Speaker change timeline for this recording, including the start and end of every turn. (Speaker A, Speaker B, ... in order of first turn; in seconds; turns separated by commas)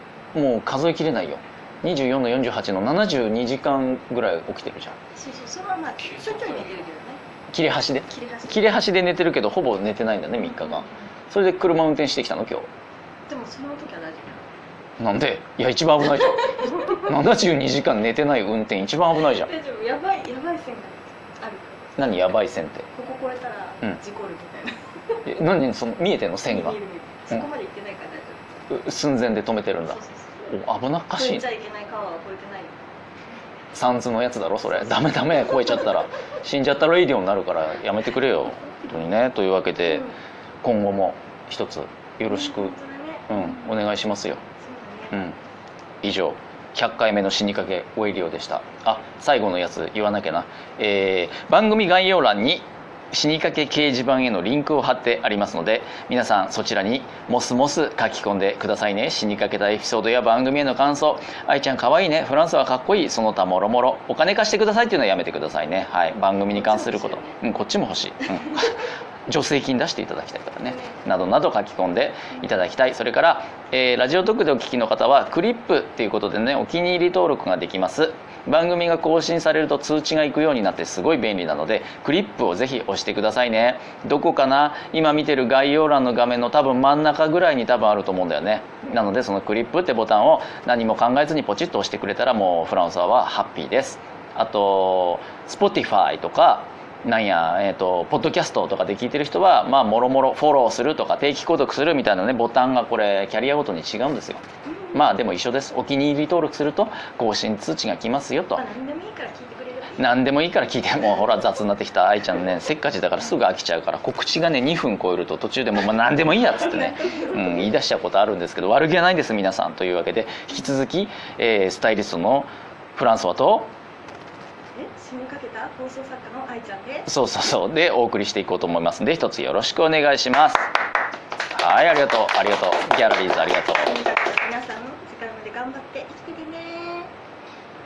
Speaker A: 0.3-5.0, Speaker B: 5.2-7.2, Speaker A: 7.5-12.7, Speaker B: 8.1-8.8, Speaker B: 10.3-11.1, Speaker B: 13.3-14.4, Speaker A: 15.0-19.5, Speaker B: 16.4-17.2, Speaker B: 19.2-22.2, Speaker A: 22.0-22.9, Speaker B: 22.9-25.2, Speaker A: 25.2-26.8, Speaker B: 26.5-28.4, Speaker A: 28.7-31.4, Speaker B: 29.8-30.5, Speaker B: 31.1-32.8, Speaker A: 33.7-40.1, Speaker B: 35.1-35.9, Speaker B: 39.8-40.2, Speaker A: 40.6-42.7, Speaker B: 42.2-43.8, Speaker A: 43.3-44.4, Speaker B: 44.6-45.2, Speaker A: 46.0-108.6, Speaker B: 66.5-67.4, Speaker B: 70.7-71.0, Speaker B: 104.7-105.1, Speaker B: 108.5-110.3, Speaker A: 110.0-123.7, Speaker B: 116.5-117.7, Speaker B: 124.7-127.1, Speaker A: 127.0-130.7, Speaker A: 131.5-133.9, Speaker B: 133.8-137.1